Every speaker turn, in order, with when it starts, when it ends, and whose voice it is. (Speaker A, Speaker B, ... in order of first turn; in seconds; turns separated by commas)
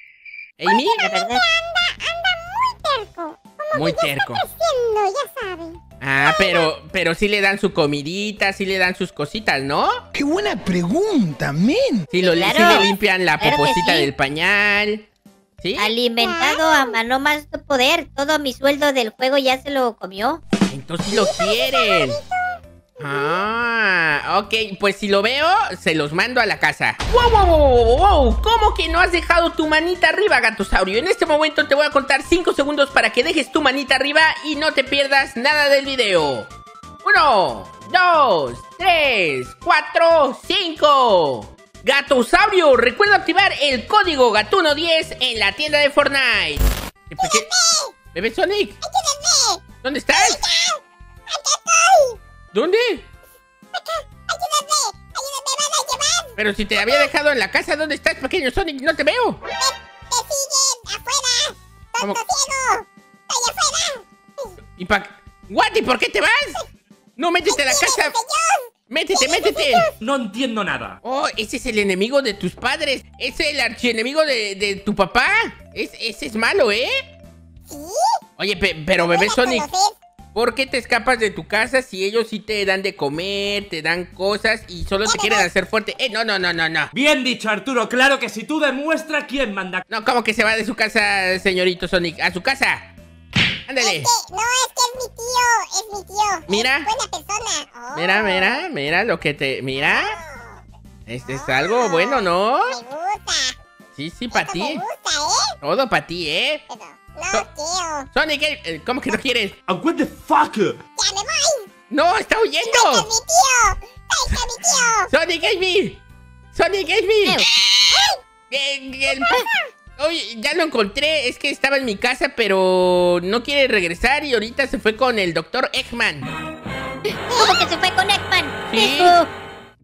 Speaker A: 0.6-1.0, Speaker B: 0.7-6.7, Speaker C: 1.0-1.4, Speaker A: 3.7-4.5, Speaker A: 6.0-10.0, Speaker A: 12.1-15.1, Speaker C: 12.2-14.1, Speaker A: 15.6-15.9, Speaker C: 15.8-20.4, Speaker B: 16.2-16.9, Speaker A: 20.7-22.2, Speaker B: 21.1-22.6, Speaker A: 23.0-36.5, Speaker A: 37.0-47.5, Speaker B: 47.2-47.9, Speaker A: 48.1-48.8, Speaker B: 48.8-52.2, Speaker A: 49.8-50.4, Speaker A: 52.5-53.1, Speaker B: 53.7-57.1, Speaker A: 56.4-59.4, Speaker B: 59.6-64.6, Speaker A: 64.8-66.6, Speaker A: 67.2-68.2, Speaker B: 67.5-69.9, Speaker A: 68.9-69.9, Speaker D: 70.0-71.0, Speaker A: 71.0-76.9, Speaker B: 77.7-78.2, Speaker A: 78.4-79.7, Speaker B: 79.0-80.0, Speaker A: 80.3-86.9, Speaker B: 85.0-85.5, Speaker D: 86.9-89.8, Speaker A: 89.9-92.9, Speaker A: 93.7-94.1, Speaker B: 93.8-98.5, Speaker A: 96.5-96.9, Speaker A: 97.9-100.2, Speaker B: 99.8-100.6, Speaker A: 101.1-102.8, Speaker B: 101.3-103.6, Speaker A: 104.0-104.8, Speaker B: 104.3-105.5, Speaker A: 105.6-106.6, Speaker B: 106.7-108.1, Speaker A: 108.1-109.6, Speaker D: 109.7-110.8, Speaker B: 111.0-111.7, Speaker A: 111.9-113.1, Speaker B: 112.6-115.1, Speaker A: 115.1-116.0, Speaker A: 116.5-117.8, Speaker B: 117.9-118.2, Speaker A: 118.5-119.4, Speaker A: 120.0-126.3, Speaker C: 127.1-129.3, Speaker A: 128.7-129.2